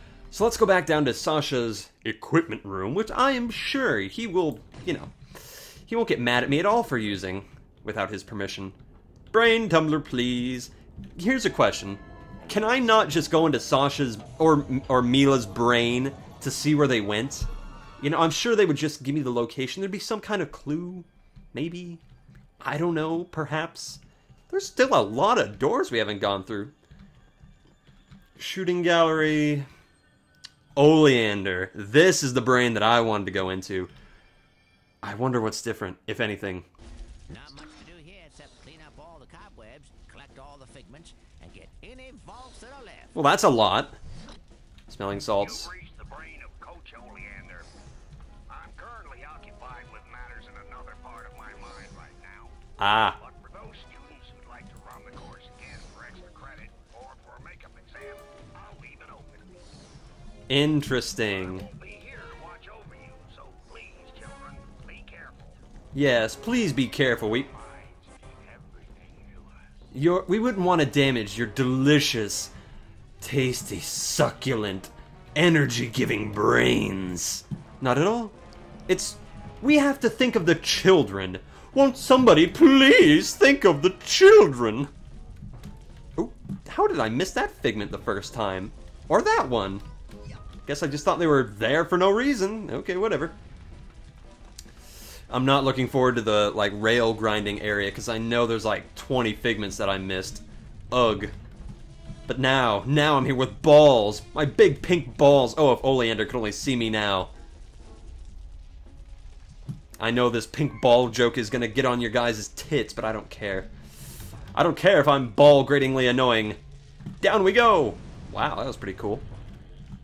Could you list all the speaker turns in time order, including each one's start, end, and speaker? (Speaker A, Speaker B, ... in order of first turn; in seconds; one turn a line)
Speaker A: 0.3-8.8
Speaker A: 9.3-22.0
Speaker A: 22.6-26.8
Speaker A: 28.4-29.7
Speaker A: 30.8-33.9
Speaker A: 35.0-36.7
Speaker B: 37.3-43.1
Speaker A: 43.1-44.0
Speaker A: 44.9-45.7
Speaker C: 45.4-47.7
Speaker C: 48.5-59.5
Speaker A: 52.8-53.2
Speaker A: 60.5-61.7
Speaker C: 61.5-65.5
Speaker B: 63.4-63.9
Speaker A: 65.9-67.5
Speaker C: 67.5-69.6
Speaker A: 69.9-72.5
Speaker A: 73.2-78.4
Speaker A: 78.9-84.9
Speaker A: 86.2-89.8
Speaker A: 90.7-93.3
Speaker A: 95.3-101.3
Speaker A: 102.3-107.3
Speaker A: 110.0-113.7
Speaker A: 114.5-116.6
Speaker A: 117.2-119.2